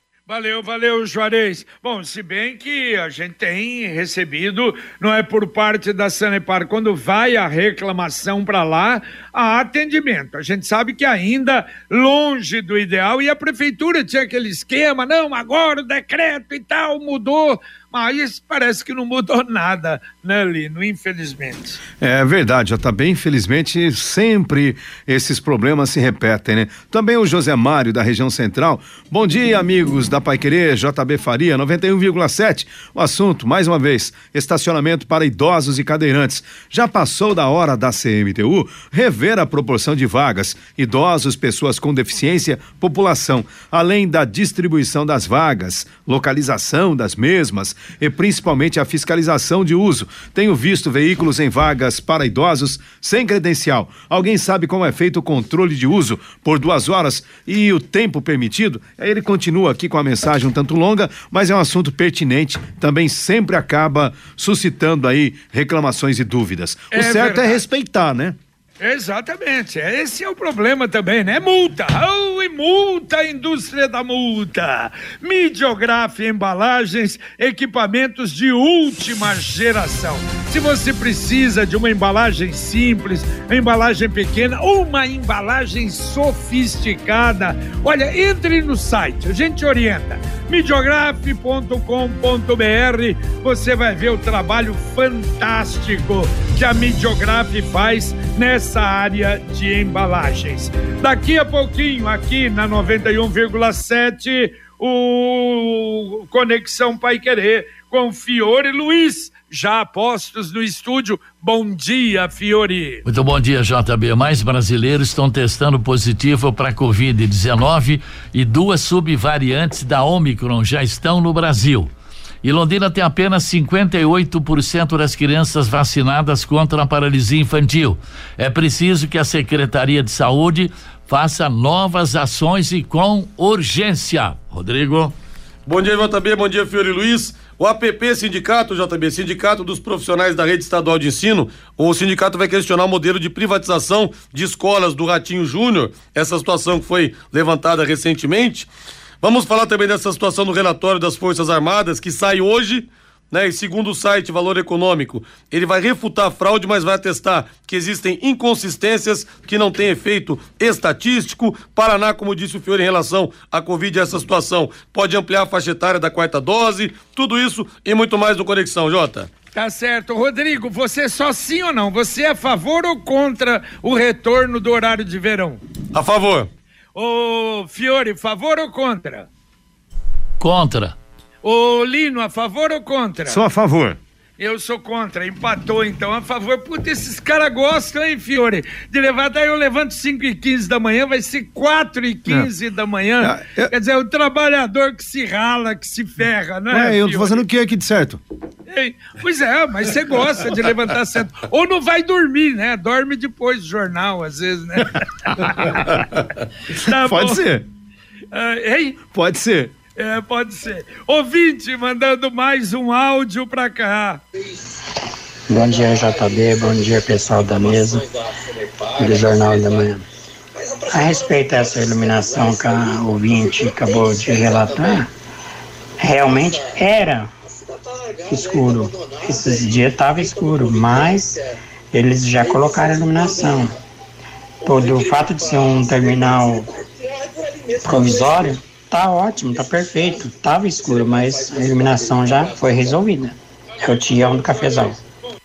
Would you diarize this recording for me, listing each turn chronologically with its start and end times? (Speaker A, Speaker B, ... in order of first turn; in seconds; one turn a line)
Speaker A: 0.3-21.8
Speaker B: 22.0-68.4
Speaker A: 66.9-67.6
Speaker A: 68.8-113.0
Speaker C: 113.0-121.9
Speaker C: 122.4-135.1
Speaker D: 135.7-148.7
Speaker D: 149.2-169.3
Speaker A: 169.5-175.6
Speaker D: 175.9-176.5
Speaker A: 176.9-179.3
Speaker C: 180.4-180.9
Speaker A: 181.4-183.4
Speaker B: 183.3-184.0
Speaker A: 184.4-197.4
Speaker B: 193.2-193.7
Speaker B: 196.7-198.2
Speaker A: 198.7-206.0
Speaker A: 206.7-207.4
Speaker B: 206.9-207.7
Speaker A: 208.3-209.0
Speaker B: 209.1-209.7
Speaker A: 209.9-214.2
Speaker E: 215.5-218.1
Speaker E: 218.9-220.0
Speaker E: 220.9-225.1
Speaker E: 226.0-227.3
Speaker E: 228.2-231.4
Speaker E: 231.9-233.7
Speaker E: 234.6-236.7
Speaker E: 237.8-245.0